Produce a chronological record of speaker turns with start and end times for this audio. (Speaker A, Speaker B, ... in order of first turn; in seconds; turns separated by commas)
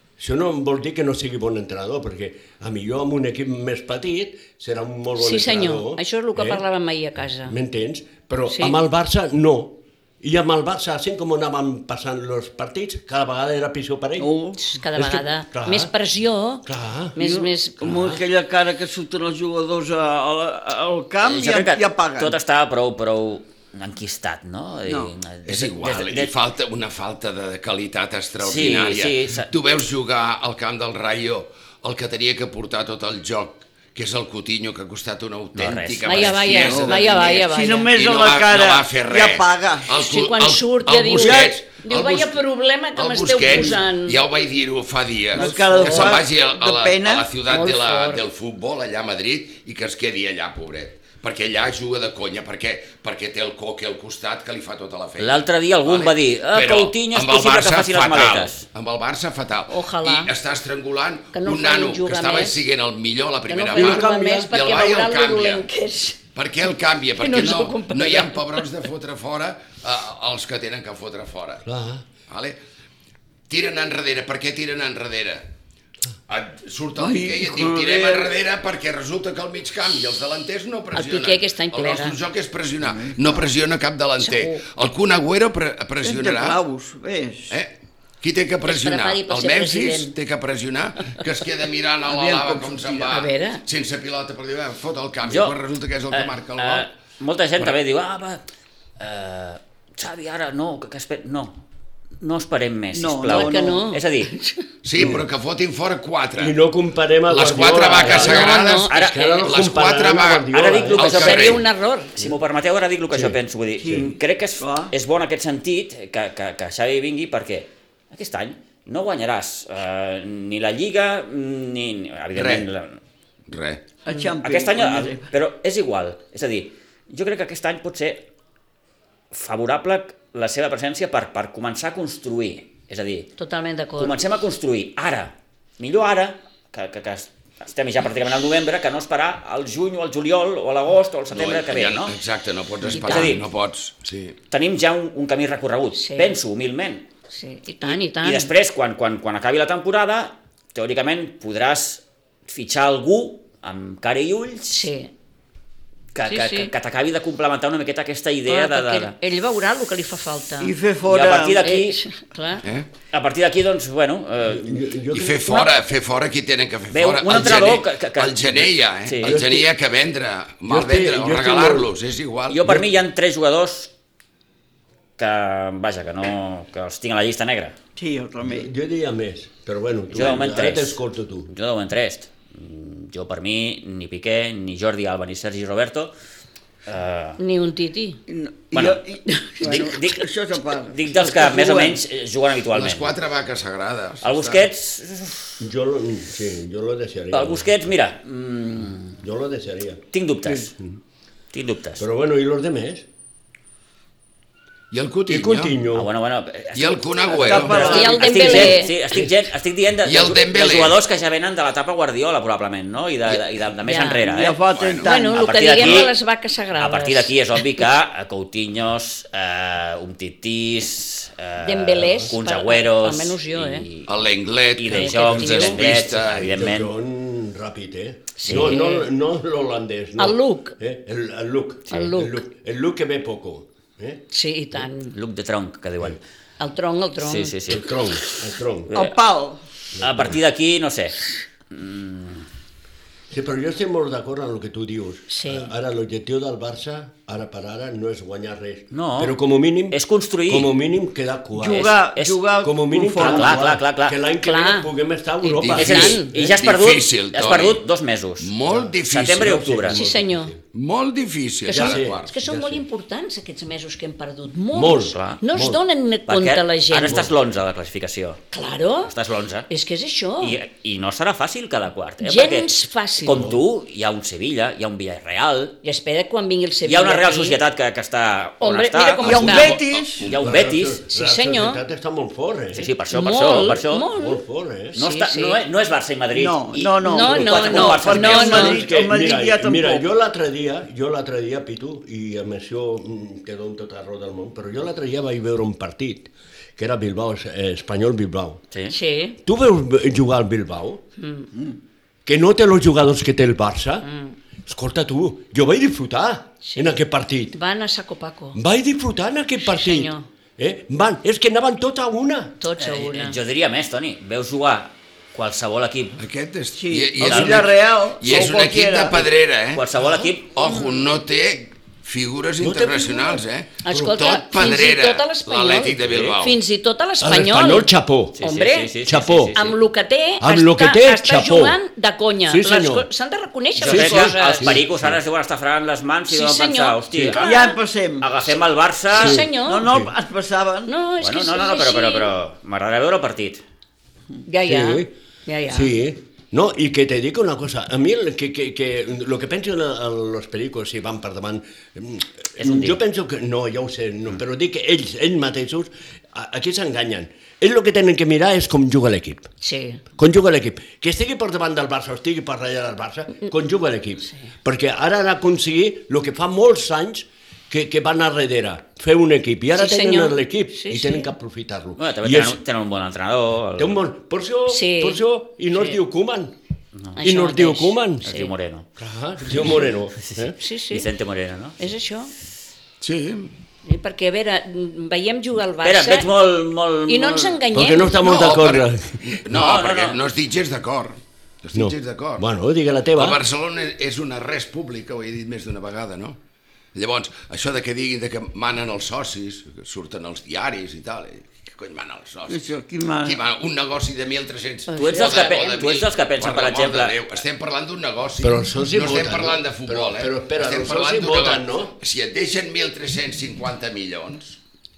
Speaker A: 0.2-6.6, Speaker B: 5.2-7.6, Speaker A: 7.5-14.3, Speaker B: 8.5-8.8, Speaker C: 14.2-14.6, Speaker B: 14.6-16.6, Speaker A: 14.9-15.9, Speaker A: 16.6-17.2, Speaker B: 17.2-17.8, Speaker C: 17.2-22.4, Speaker A: 17.8-18.2, Speaker D: 21.2-26.3, Speaker E: 25.5-42.4, Speaker D: 28.4-29.5, Speaker D: 35.5-36.5, Speaker B: 36.0-37.9, Speaker C: 36.7-40.0, Speaker B: 40.0-44.2, Speaker C: 41.2-41.6, Speaker E: 43.0-65.7, Speaker C: 45.3-47.3, Speaker B: 45.4-46.2, Speaker B: 47.4-48.2, Speaker D: 55.2-58.7, Speaker B: 59.7-60.3, Speaker B: 61.3-62.6, Speaker B: 63.5-66.2, Speaker A: 63.8-64.5, Speaker E: 66.3-71.7, Speaker B: 67.2-68.7, Speaker A: 71.7-72.0, Speaker E: 72.3-72.6, Speaker E: 73.5-75.4, Speaker E: 76.3-86.6, Speaker C: 77.0-78.3, Speaker B: 80.9-82.2, Speaker C: 82.9-83.4, Speaker B: 84.2-84.6, Speaker C: 86.0-87.6, Speaker E: 87.5-96.9, Speaker B: 88.6-90.1, Speaker C: 92.1-93.2, Speaker B: 93.1-93.6, Speaker D: 95.2-95.6, Speaker D: 96.1-98.4, Speaker D: 99.0-101.6, Speaker D: 102.2-104.3, Speaker C: 103.0-103.8, Speaker B: 103.3-104.7, Speaker E: 104.8-106.6, Speaker A: 105.0-105.2, Speaker A: 106.4-111.2, Speaker E: 107.3-108.9, Speaker B: 108.1-109.1, Speaker D: 108.9-109.5, Speaker E: 109.4-111.6, Speaker D: 110.5-123.0, Speaker B: 110.8-112.2, Speaker A: 113.1-114.1, Speaker C: 113.8-114.9, Speaker E: 122.3-122.7, Speaker E: 123.5-123.8, Speaker C: 124.0-125.3, Speaker D: 124.1-128.3, Speaker D: 129.3-133.3, Speaker B: 133.4-134.2, Speaker D: 134.0-142.2, Speaker E: 141.3-144.4, Speaker B: 142.9-143.4, Speaker D: 142.9-143.4, Speaker D: 144.5-147.1, Speaker B: 145.9-146.4, Speaker B: 147.3-148.5, Speaker D: 147.8-154.9, Speaker B: 154.7-155.1, Speaker D: 156.1-159.2, Speaker B: 156.3-156.7, Speaker B: 158.5-160.8, Speaker C: 160.6-161.6, Speaker D: 161.1-162.0, Speaker B: 161.6-162.7, Speaker D: 163.1-164.9, Speaker A: 164.4-165.7, Speaker E: 165.1-172.6, Speaker D: 166.9-169.4, Speaker A: 169.2-169.7, Speaker A: 170.7-171.9, Speaker D: 172.5-173.9, Speaker D: 175.2-177.8, Speaker C: 178.0-178.7, Speaker A: 178.4-181.5, Speaker D: 180.1-186.1, Speaker D: 186.9-187.4, Speaker B: 187.4-188.2, Speaker C: 188.3-192.0, Speaker D: 188.7-189.0, Speaker D: 189.6-193.1, Speaker E: 192.7-194.7, Speaker D: 194.2-195.6, Speaker A: 195.6-197.7, Speaker D: 197.3-199.2, Speaker A: 199.2-200.9, Speaker D: 200.1-200.7, Speaker D: 201.5-202.0, Speaker A: 202.0-203.1, Speaker E: 204.9-205.8, Speaker A: 205.3-206.1, Speaker D: 205.9-214.6, Speaker E: 206.8-208.0, Speaker C: 207.4-208.7, Speaker B: 207.7-209.0, Speaker E: 210.1-211.0, Speaker B: 213.8-214.5, Speaker C: 214.2-215.8, Speaker E: 214.7-215.1, Speaker B: 215.0-217.3, Speaker D: 215.3-216.1, Speaker D: 216.8-224.1, Speaker B: 221.6-223.9, Speaker E: 224.1-226.6, Speaker D: 224.8-226.9, Speaker B: 224.9-225.8, Speaker A: 225.9-234.2, Speaker B: 228.4-229.1, Speaker D: 228.5-228.8, Speaker B: 230.2-230.8, Speaker B: 231.9-232.4, Speaker B: 234.3-235.2, Speaker D: 235.1-236.2, Speaker B: 236.6-237.7, Speaker D: 237.2-239.2, Speaker A: 237.7-238.9, Speaker C: 238.9-239.6, Speaker A: 239.9-240.4, Speaker D: 240.0-242.5, Speaker A: 243.3-252.0, Speaker B: 245.3-245.7, Speaker D: 248.9-249.4, Speaker D: 249.9-250.7, Speaker C: 251.6-253.7, Speaker D: 252.0-252.4, Speaker A: 252.6-256.6, Speaker D: 253.2-254.2, Speaker B: 254.4-254.9, Speaker B: 255.4-256.3, Speaker E: 255.4-257.8, Speaker D: 255.8-258.5, Speaker E: 258.4-259.8, Speaker A: 258.7-260.6, Speaker D: 259.1-260.0, Speaker B: 259.9-260.5, Speaker E: 260.7-262.3, Speaker B: 261.7-267.3, Speaker A: 261.7-262.8, Speaker A: 264.7-265.8, Speaker D: 265.1-265.4, Speaker D: 266.3-268.4, Speaker B: 268.5-269.1, Speaker D: 269.0-269.7, Speaker B: 269.7-270.6, Speaker D: 270.4-275.8, Speaker B: 272.2-273.5, Speaker B: 275.8-277.6, Speaker D: 276.9-279.7, Speaker B: 278.6-279.8, Speaker E: 279.2-280.4, Speaker C: 279.2-280.3, Speaker D: 280.2-281.0, Speaker A: 280.3-282.9, Speaker B: 281.1-281.8, Speaker D: 282.7-284.1, Speaker B: 283.1-284.4, Speaker A: 284.1-285.0, Speaker B: 284.9-285.6, Speaker D: 285.0-288.8, Speaker C: 286.3-290.1, Speaker B: 287.0-288.8, Speaker A: 288.6-298.6, Speaker B: 298.9-299.4, Speaker A: 299.4-301.0, Speaker B: 301.2-301.5, Speaker A: 302.3-304.1, Speaker B: 304.0-304.4, Speaker A: 304.7-307.6, Speaker B: 306.6-306.9, Speaker B: 307.5-308.6, Speaker A: 308.6-312.6, Speaker B: 309.6-310.3, Speaker B: 312.6-313.4, Speaker D: 312.8-316.2, Speaker E: 316.2-319.9, Speaker C: 316.8-319.2, Speaker D: 317.2-317.6, Speaker D: 319.7-320.6, Speaker E: 320.5-326.6, Speaker A: 322.6-323.4, Speaker B: 323.8-329.0, Speaker A: 327.2-328.4, Speaker D: 328.4-329.8, Speaker A: 329.0-329.6, Speaker B: 329.5-334.8, Speaker A: 330.4-331.8, Speaker A: 332.5-333.1, Speaker D: 333.8-337.6, Speaker A: 333.8-335.2, Speaker B: 336.3-337.8, Speaker A: 337.1-337.4, Speaker C: 337.4-338.3, Speaker D: 338.2-339.4, Speaker B: 339.1-339.9, Speaker A: 339.1-340.1, Speaker C: 339.7-340.9, Speaker B: 340.9-342.3, Speaker D: 341.2-343.6, Speaker B: 344.4-345.9, Speaker A: 344.6-345.1, Speaker A: 345.7-359.5, Speaker D: 352.6-353.0, Speaker B: 359.6-360.0, Speaker A: 360.1-372.6, Speaker B: 369.8-371.3, Speaker D: 372.0-374.0, Speaker A: 373.8-376.6, Speaker B: 374.7-375.2, Speaker D: 377.0-377.2, Speaker B: 377.2-378.5, Speaker A: 377.2-378.3, Speaker D: 378.2-378.9, Speaker A: 379.0-380.6, Speaker B: 380.6-381.1, Speaker D: 380.9-381.8, Speaker B: 381.8-382.3, Speaker E: 383.0-383.5, Speaker B: 383.9-386.3, Speaker D: 385.8-387.6, Speaker B: 387.1-388.2, Speaker A: 387.7-389.4, Speaker E: 388.2-392.5, Speaker D: 389.5-390.2, Speaker A: 391.7-393.4, Speaker E: 393.1-396.4, Speaker E: 396.9-402.7, Speaker C: 402.5-403.4, Speaker E: 403.2-414.6, Speaker B: 404.9-405.7, Speaker D: 404.9-407.2, Speaker A: 408.4-412.0